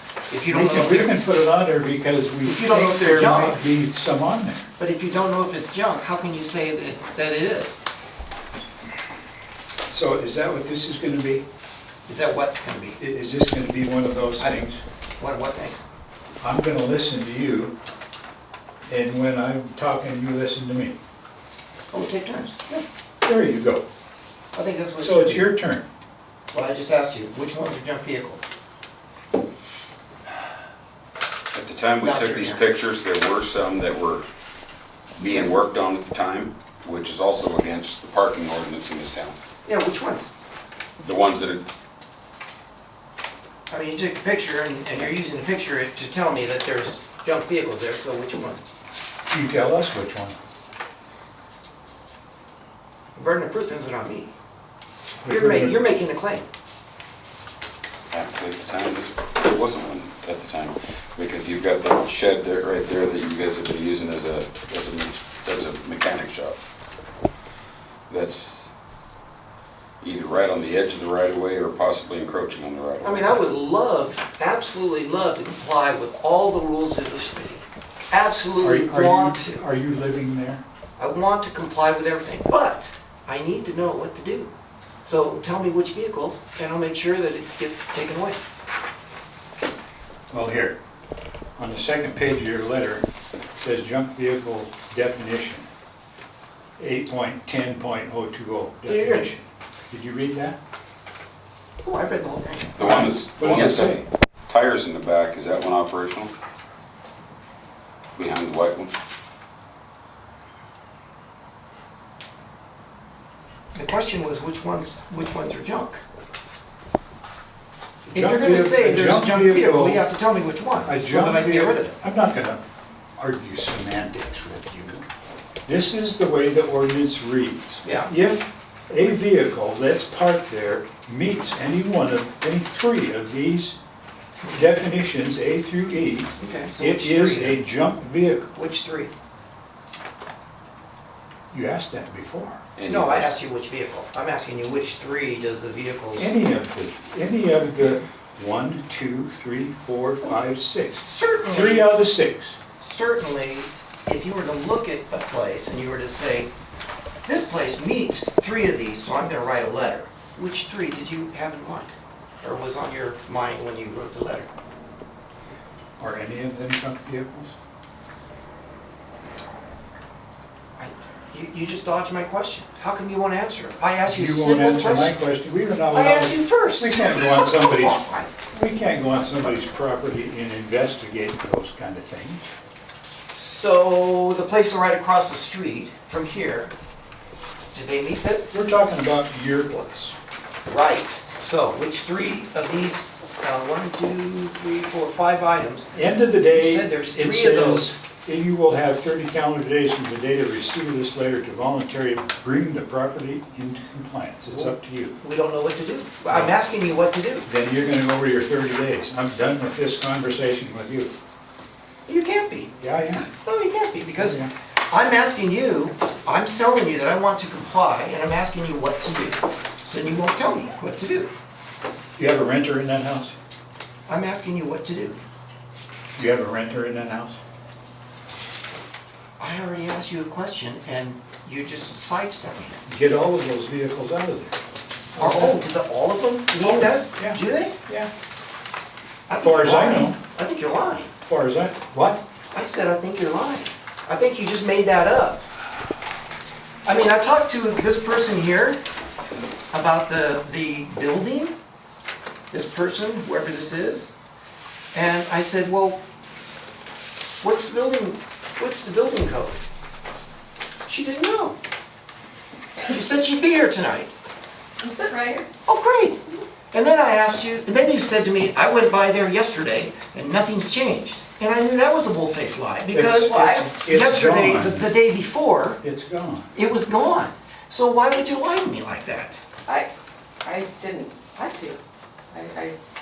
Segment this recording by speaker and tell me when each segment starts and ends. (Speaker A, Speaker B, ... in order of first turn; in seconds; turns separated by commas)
Speaker A: 0.3-1.1, Speaker B: 0.5-4.7, Speaker A: 2.4-3.6, Speaker A: 4.8-7.8, Speaker B: 9.9-11.4, Speaker A: 12.1-13.0, Speaker B: 13.0-14.8, Speaker A: 15.2-15.8, Speaker B: 16.4-17.7, Speaker B: 18.9-21.0, Speaker A: 21.9-22.8, Speaker B: 23.2-23.8, Speaker A: 24.5-25.5, Speaker B: 25.0-25.9, Speaker A: 26.5-28.4, Speaker C: 31.5-34.2, Speaker A: 32.0-32.6, Speaker C: 35.2-39.3, Speaker A: 39.6-40.3, Speaker C: 41.0-41.6, Speaker A: 43.7-48.6, Speaker B: 49.3-50.4, Speaker A: 53.1-54.3, Speaker B: 55.2-55.8, Speaker A: 55.2-56.5, Speaker C: 58.1-66.6, Speaker C: 68.1-68.7, Speaker C: 70.0-73.4, Speaker A: 73.0-79.6, Speaker B: 78.6-80.6, Speaker A: 81.0-84.5, Speaker A: 85.0-88.4, Speaker B: 90.3-90.8, Speaker B: 91.6-95.7, Speaker B: 96.8-100.6, Speaker A: 98.8-99.3, Speaker A: 101.8-102.9, Speaker C: 102.8-106.3, Speaker B: 102.8-104.0, Speaker C: 108.2-109.0, Speaker A: 113.7-116.0, Speaker B: 118.1-120.0, Speaker A: 118.1-122.0, Speaker B: 120.8-122.6, Speaker B: 123.2-125.0, Speaker B: 125.7-133.8, Speaker A: 127.8-128.1, Speaker B: 134.5-138.5, Speaker A: 136.3-137.6, Speaker A: 138.5-139.1, Speaker B: 141.5-142.6, Speaker C: 142.8-143.4, Speaker A: 142.9-146.3, Speaker B: 146.2-152.6, Speaker A: 151.0-151.9, Speaker A: 152.8-156.5, Speaker A: 157.2-164.5, Speaker B: 166.0-167.6, Speaker A: 170.8-175.2, Speaker B: 174.1-182.5, Speaker A: 175.9-178.3, Speaker A: 183.3-186.7, Speaker A: 187.7-188.5, Speaker B: 188.5-190.2, Speaker A: 190.7-197.9, Speaker B: 195.9-205.2, Speaker A: 204.5-207.5, Speaker B: 206.3-206.5, Speaker B: 207.4-211.1, Speaker A: 212.1-221.3, Speaker B: 212.8-213.3, Speaker B: 214.2-214.5, Speaker B: 222.2-223.3, Speaker A: 224.1-225.2, Speaker B: 226.2-227.3, Speaker A: 229.4-232.8, Speaker B: 232.9-234.6, Speaker B: 235.2-235.6, Speaker A: 235.2-237.7, Speaker B: 236.6-238.1, Speaker A: 239.3-241.1, Speaker B: 239.4-240.2, Speaker B: 241.3-242.2, Speaker A: 242.5-245.4, Speaker A: 246.8-248.8, Speaker A: 249.7-251.5, Speaker A: 252.5-254.1, Speaker A: 254.9-256.0, Speaker A: 257.4-259.6, Speaker A: 260.9-261.6, Speaker A: 262.9-264.1, Speaker D: 264.8-265.5, Speaker A: 265.6-275.8, Speaker B: 272.9-274.9, Speaker D: 273.3-273.7, Speaker B: 275.8-276.5, Speaker A: 276.5-279.4, Speaker D: 280.4-281.8, Speaker D: 282.3-282.8